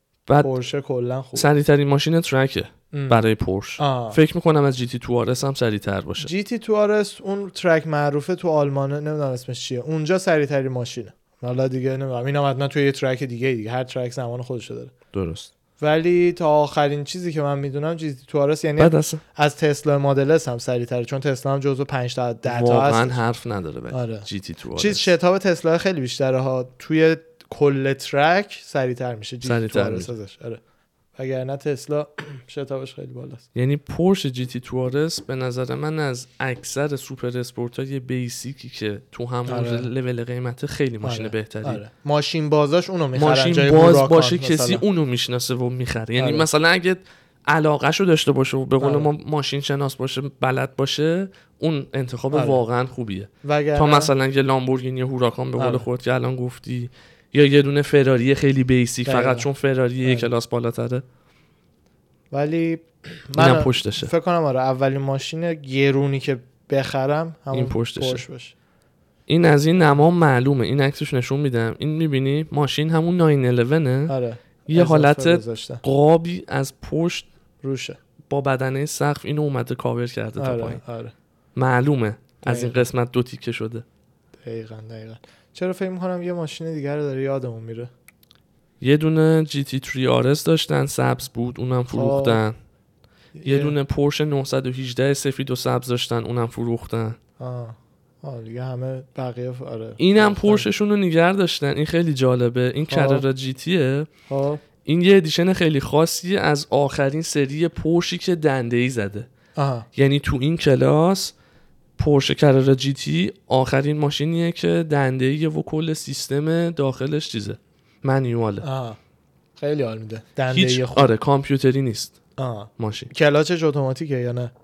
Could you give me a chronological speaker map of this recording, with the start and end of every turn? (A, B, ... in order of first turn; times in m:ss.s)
0:00.3-0:00.5 A
0:00.4-0:01.5 B
0:01.3-0:06.3 A
0:02.9-0:03.3 B
0:03.8-0:04.2 B
0:06.2-0:14.9 B
0:15.1-0:15.5 A
0:15.8-0:23.2 B
0:18.8-0:19.2 A
0:22.5-0:25.1 A
0:23.9-0:30.6 B
0:29.4-0:30.1 A
0:31.2-0:33.4 B
0:33.6-0:41.8 A
0:39.5-0:39.9 B
0:41.0-0:44.8 B
0:43.2-1:01.0 A
0:46.2-0:46.5 B
0:48.8-0:49.1 B
0:52.3-0:52.6 B
0:53.4-0:54.1 B
0:55.6-0:55.9 B
0:59.1-0:59.5 B
1:00.0-1:00.3 B
1:02.3-1:08.5 B
1:03.4-1:04.1 A
1:07.5-1:08.2 A
1:09.3-1:14.2 A
1:14.1-1:15.8 B
1:14.7-1:17.3 A
1:17.6-1:18.0 B
1:18.3-1:20.8 A
1:20.4-1:21.1 B
1:21.6-1:23.8 A
1:22.4-1:22.8 B
1:24.4-1:27.9 B
1:28.8-1:32.6 A
1:31.9-1:32.4 B
1:33.4-1:33.8 B
1:33.4-1:37.2 A
1:37.4-1:40.7 B
1:40.0-1:44.1 A
1:42.9-1:43.2 B
1:44.3-1:44.6 B
1:44.8-1:49.3 A
1:49.6-1:49.9 B
1:50.0-1:51.3 A
1:52.0-1:58.7 A
1:58.6-1:59.0 B
1:59.6-2:01.1 B
2:00.5-2:02.2 A
2:02.4-2:04.5 B
2:02.8-2:03.1 A